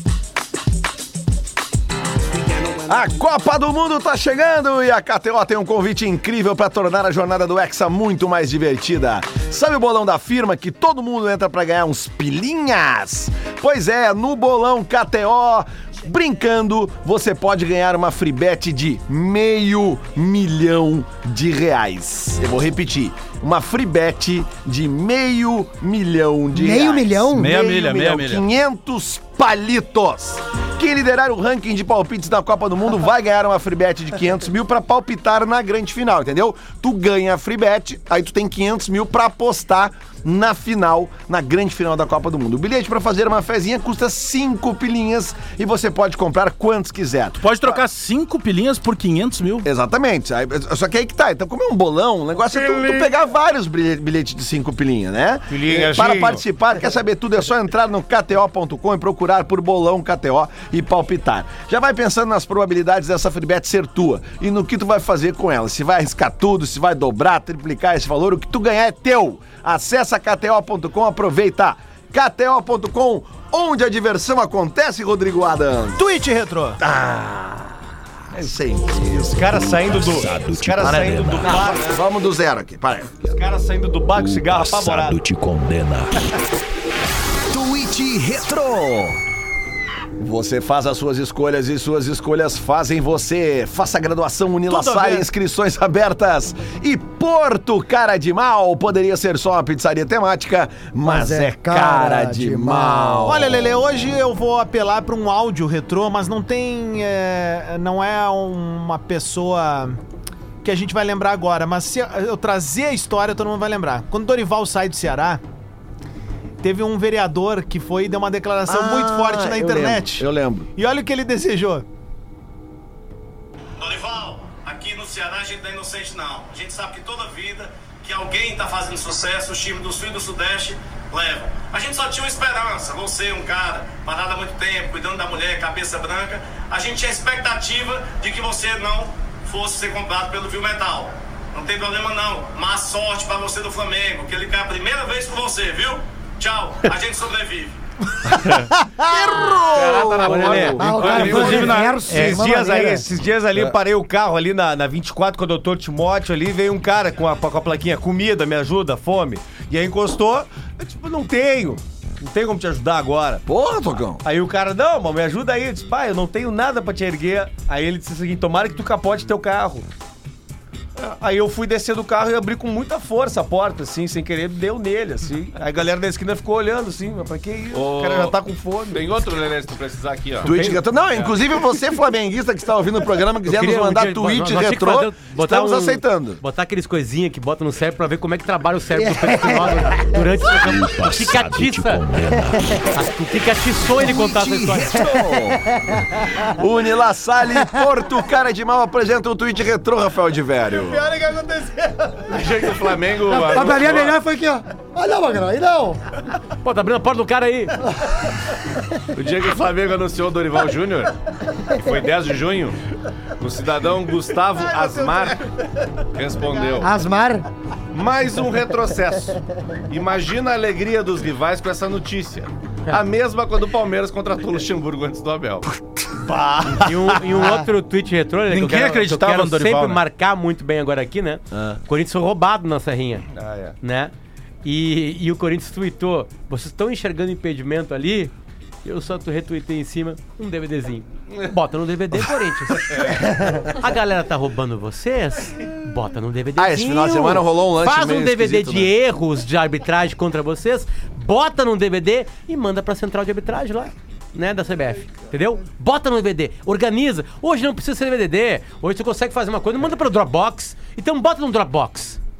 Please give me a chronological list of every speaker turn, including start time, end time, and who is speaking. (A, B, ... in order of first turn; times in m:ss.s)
0:02.8-0:47.8 A
0:26.5-0:27.5 B
0:27.3-0:28.4 C
0:47.4-0:49.7 C
0:49.6-1:16.0 A
0:55.5-0:56.4 D
1:16.0-1:16.8 E
1:16.8-1:17.8 A
1:18.3-1:19.8 A
1:19.0-1:22.0 D
1:21.4-1:23.3 A
1:23.2-1:25.2 D
1:27.5-1:29.2 A
1:30.2-1:43.6 A
1:34.7-1:35.3 E
1:41.0-1:43.5 B
1:43.2-1:50.0 E
1:50.6-1:55.4 E
1:56.6-2:01.8 E
1:58.7-2:00.7 A
2:03.8-2:27.7 F
2:28.6-2:28.9 E
2:29.0-2:30.9 A
2:29.7-2:31.9 G
2:30.0-2:30.9 D
2:30.2-2:32.4 H
2:30.8-2:33.0 B
2:30.9-2:32.3 C
2:32.2-2:43.4 D
2:43.4-2:44.2 A
2:44.2-2:49.9 D
2:51.0-2:59.1 D
2:57.7-2:58.4 G
2:58.9-3:01.4 G
3:00.4-3:06.4 A
3:00.4-3:00.8 H
3:03.4-3:12.2 H
3:08.9-3:10.6 B
3:12.9-3:15.0 H
3:14.0-3:15.7 A
3:14.9-3:16.4 B
3:16.4-3:21.1 A
3:20.7-3:22.5 E
3:22.3-3:24.2 G
3:23.2-3:26.0 B
3:26.6-3:27.8 H
3:29.1-3:31.1 G
3:31.7-3:32.8 G
3:33.4-3:35.4 G
3:34.5-3:35.5 E
3:36.1-3:36.9 G
3:36.3-3:36.9 E
3:36.8-3:37.4 B
3:37.9-3:45.7 G
3:46.2-3:47.5 D
3:46.7-3:53.3 H
3:48.5-3:50.0 C
3:53.3-3:53.8 G
3:53.8-3:54.1 H
3:54.6-3:58.3 H
3:58.8-4:22.2 H
4:06.6-4:08.9 A